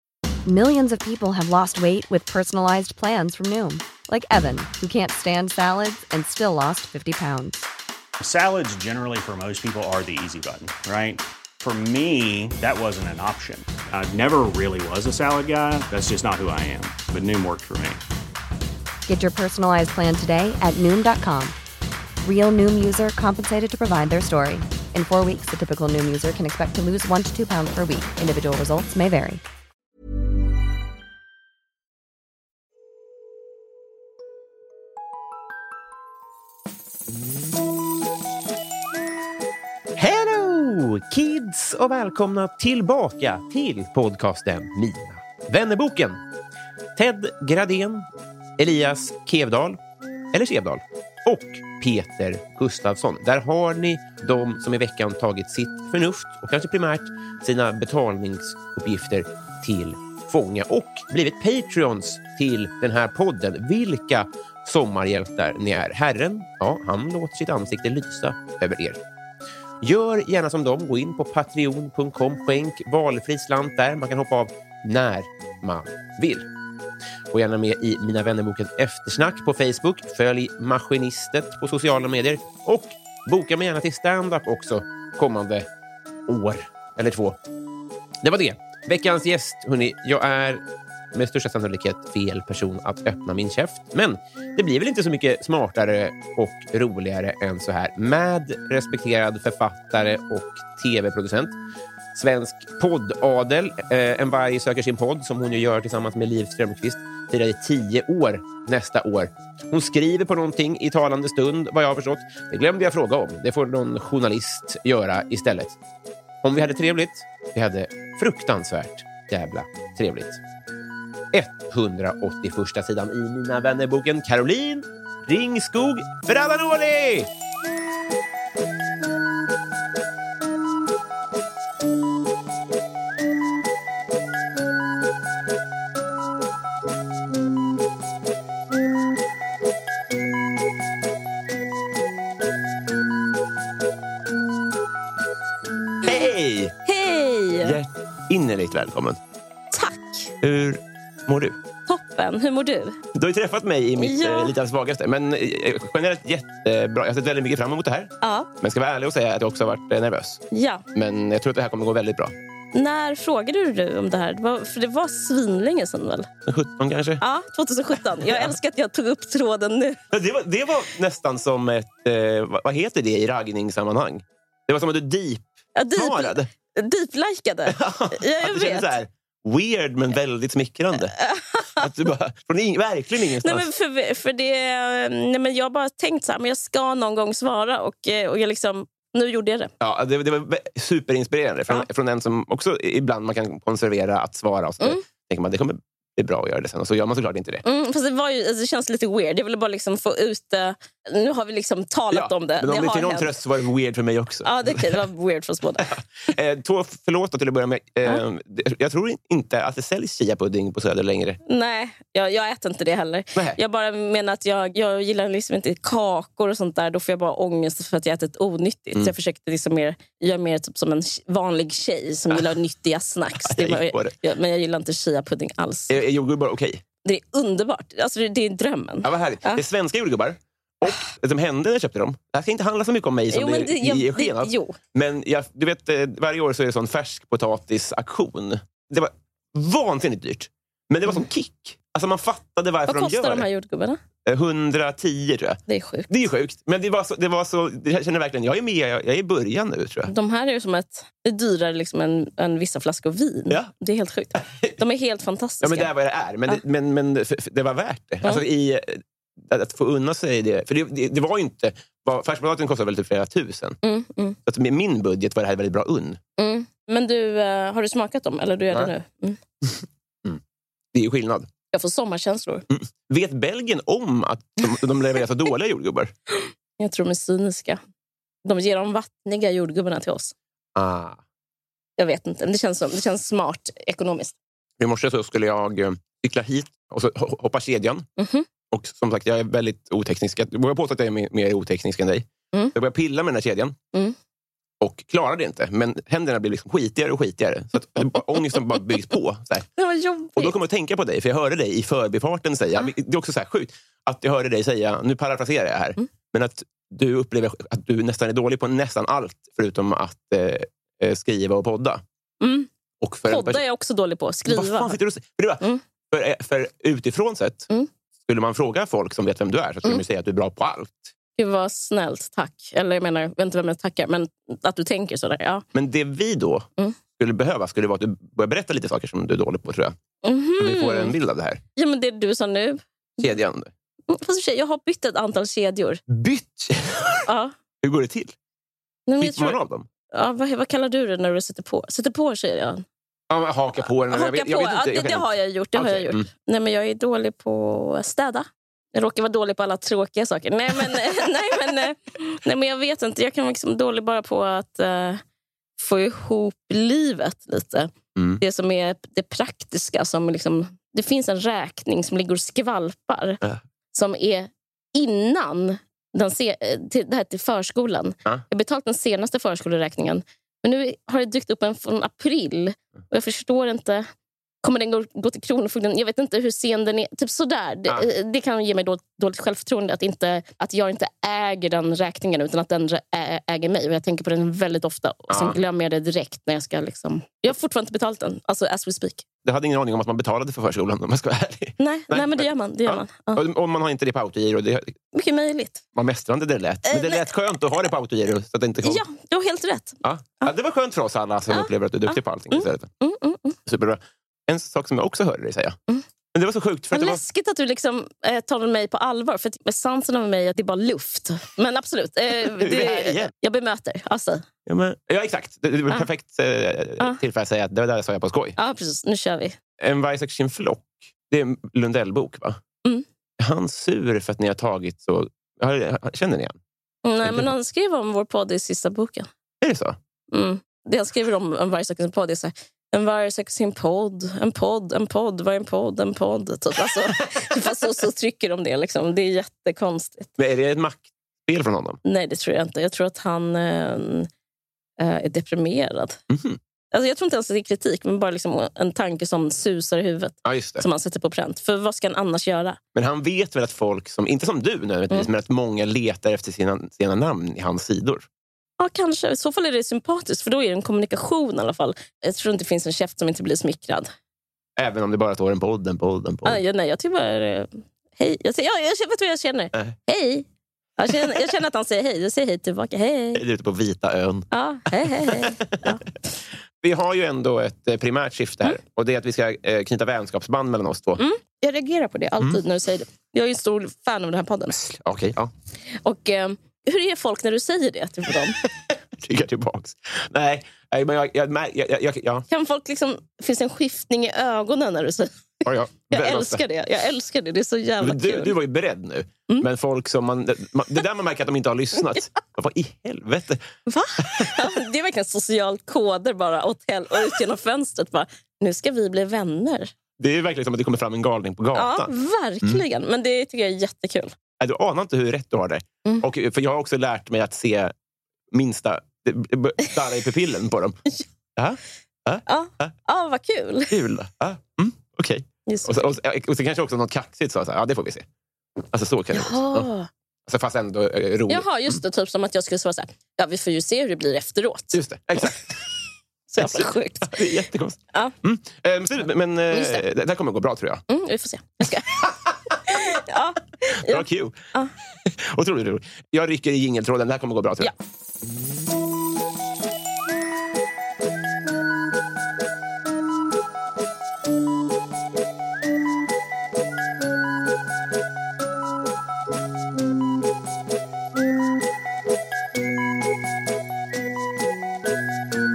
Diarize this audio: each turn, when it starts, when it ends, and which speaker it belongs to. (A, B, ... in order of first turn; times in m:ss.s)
0:00.4-0:07.7 A
0:08.2-0:18.0 B
0:19.1-0:21.6 A
0:22.2-0:29.4 A
0:40.0-0:46.2 C
0:47.0-0:48.1 C
0:48.6-0:49.8 C
0:50.3-1:09.0 C
1:09.8-1:16.4 C
1:17.3-1:25.7 C
1:26.3-1:27.4 C
1:28.2-1:30.6 C
1:31.1-1:41.6 C
1:42.1-1:55.8 C
1:56.4-2:00.4 C
2:01.3-2:07.3 C
2:26.0-2:26.8 C
2:26.9-2:27.8 D
2:27.6-2:29.2 C
2:29.7-2:30.3 D
2:30.4-2:31.6 C
2:31.9-2:33.0 D
2:33.1-2:40.4 C
2:34.0-2:34.5 D
2:38.2-2:38.5 D
2:40.5-2:40.8 D
2:40.9-2:42.3 C
2:42.7-2:46.3 D
2:46.4-2:47.2 C
2:47.2-2:50.0 D
2:48.2-2:48.5 C
2:50.1-2:56.5 C
2:55.8-2:58.9 D
2:57.7-3:01.2 C
3:01.1-3:01.9 D
3:01.8-3:03.7 C
3:03.4-3:09.7 D
3:09.8-3:17.6 C
3:17.6-3:23.4 D
3:22.1-3:25.0 C
3:24.4-3:25.9 D
3:25.9-3:31.4 C
3:31.4-3:46.0 D
3:43.4-3:44.1 C
3:45.9-3:46.8 C
3:47.0-3:49.6 D
3:49.0-4:03.5 C
3:53.3-3:54.8 D
4:02.9-4:04.0 D
4:04.2-4:10.1 C
4:05.7-4:06.1 D
4:10.1-4:15.9 D
4:14.4-4:14.8 C
4:15.6-4:23.8 C
4:23.8-4:24.4 D
4:24.5-4:26.2 C
4:26.4-4:29.4 D
4:30.9-4:31.5 C
4:31.7-4:32.6 D
4:32.7-4:36.1 C
4:36.4-4:37.8 D
4:38.4-4:40.3 D
4:40.8-4:41.2 C
4:42.0-4:44.4 D
4:44.8-4:48.1 C
4:48.2-4:48.5 D
4:48.7-4:53.8 C
4:54.8-4:59.7 C
4:59.8-5:00.5 D
5:00.4-5:12.0 C
5:12.4-5:12.7 D
5:13.0-5:13.6 C
5:13.3-5:15.0 D
5:14.5-5:17.7 C
5:18.2-5:21.1 C
5:21.4-5:25.6 D
5:25.7-5:30.0 C
5:30.2-5:31.2 D
5:30.6-5:31.6 C
5:31.8-5:33.2 D
5:33.2-5:33.7 C
5:34.1-5:36.0 D
5:36.1-5:37.3 C
5:37.2-5:37.5 D
5:37.8-5:38.3 C
5:39.1-5:39.6 D
5:39.2-5:39.9 C
5:40.1-5:42.8 D
5:43.3-5:46.3 C
5:43.8-5:55.2 D
5:55.8-6:03.4 D
5:58.2-5:58.4 C
6:03.9-6:14.1 D
6:14.6-6:29.2 D
6:25.3-6:25.6 C
6:29.4-6:35.0 C
6:31.8-6:33.4 D
6:35.1-6:35.8 D
6:35.9-6:39.0 C
6:36.9-6:37.3 D
6:38.8-6:40.5 D
6:40.0-6:42.9 C
6:41.5-6:43.6 D
6:43.7-6:45.8 C
6:46.3-6:47.2 C
6:46.9-6:54.5 D
6:52.6-6:53.3 C
6:54.7-6:58.6 C
6:58.6-6:59.6 D
6:59.8-7:02.6 C
7:03.4-7:06.6 C
7:07.0-7:09.3 D
7:07.2-7:07.5 C
7:09.6-7:10.0 C
7:10.3-7:20.3 D
7:17.2-7:17.6 C
7:20.4-7:22.0 C
7:22.0-7:24.3 D
7:25.0-7:26.2 D
7:26.3-7:26.6 C
7:26.9-7:32.8 D
7:30.4-7:30.8 C
7:32.9-7:38.2 C
7:38.8-7:44.1 D
7:44.8-7:46.6 C
7:46.4-7:50.5 D
7:51.0-7:53.4 D
7:53.4-7:55.8 C
7:54.5-7:56.0 D
7:56.8-8:01.2 C
8:01.2-8:04.8 D
8:04.8-8:05.5 C
8:05.9-8:08.6 D
8:08.6-8:12.4 C
8:12.5-8:18.6 D
8:15.6-8:16.6 C
8:18.0-8:23.6 C
8:23.8-8:29.9 D
8:24.2-8:24.6 C
8:30.2-8:32.1 C
8:31.7-8:34.3 D
8:34.6-8:37.9 C
8:38.5-8:41.0 C
8:41.6-8:42.9 C
8:42.5-8:44.0 D
8:43.9-8:48.2 C
8:45.7-8:46.2 D
8:48.9-8:49.9 C
8:49.3-8:50.1 D
8:50.5-8:52.0 C
8:51.5-8:55.0 D
8:54.9-8:55.9 C
8:56.5-8:57.5 D
8:56.6-9:01.0 C
8:59.7-9:00.0 D
9:01.1-9:02.2 D
9:02.1-9:02.8 C
9:02.9-9:04.9 D
9:04.0-9:04.6 C
9:05.2-9:07.9 C